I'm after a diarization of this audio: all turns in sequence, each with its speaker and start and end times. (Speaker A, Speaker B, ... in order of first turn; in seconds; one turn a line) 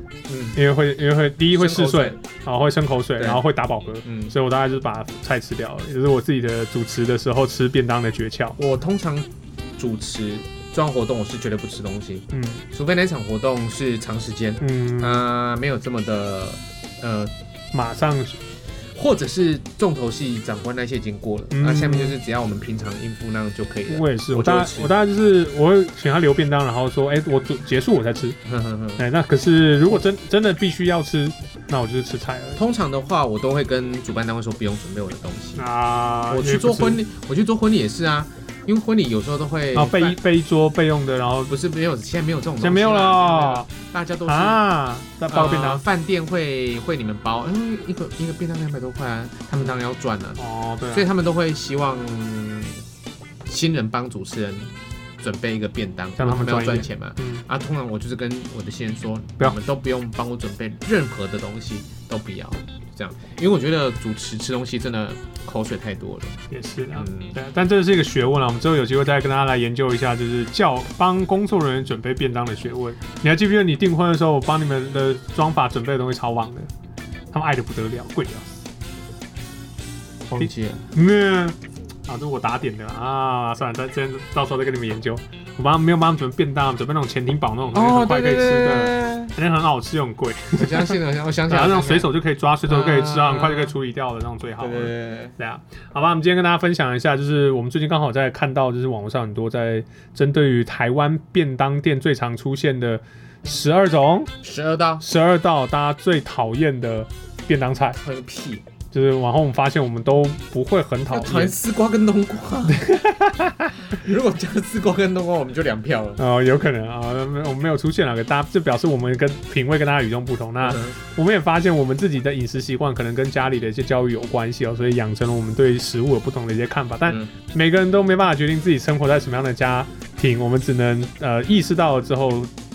Speaker A: 0.3-0.6
Speaker B: 0.6-8.6
Speaker A: 1.5-2.2
Speaker A: 4.0-4.3
Speaker A: 8.6-17.3
Speaker B: 12.3-12.6
Speaker B: 14.6-15.2
Speaker B: 17.7-18.4
Speaker A: 19.0-24.9
Speaker B: 21.5-22.2
Speaker B: 23.9-28.4
Speaker A: 28.4-29.0
Speaker B: 29.0-32.6
Speaker A: 32.6-35.6
Speaker B: 35.6-37.0
Speaker A: 36.3-40.2
Speaker B: 39.7-41.5
Speaker A: 41.5-44.6
Speaker B: 42.6-43.7
Speaker B: 44.3-45.8
Speaker A: 45.3-52.8
Speaker B: 50.4-51.1
Speaker A: 53.5-66.4
Speaker B: 56.2-57.4
Speaker B: 66.5-76.7
Speaker A: 67.0-67.4
Speaker B: 77.3-78.7
Speaker A: 80.3-80.9
Speaker B: 80.4-104.3
Speaker A: 87.7-89.4
Speaker A: 90.6-92.1
Speaker A: 92.7-93.7
Speaker A: 94.6-95.4
Speaker A: 104.4-105.0
Speaker B: 105.0-108.0
Speaker A: 108.0-108.6
Speaker B: 108.9-111.5
Speaker A: 111.1-112.9
Speaker B: 112.7-113.7
Speaker A: 113.9-116.2
Speaker B: 116.2-132.5
Speaker A: 120.6-121.0
Speaker A: 127.1-127.3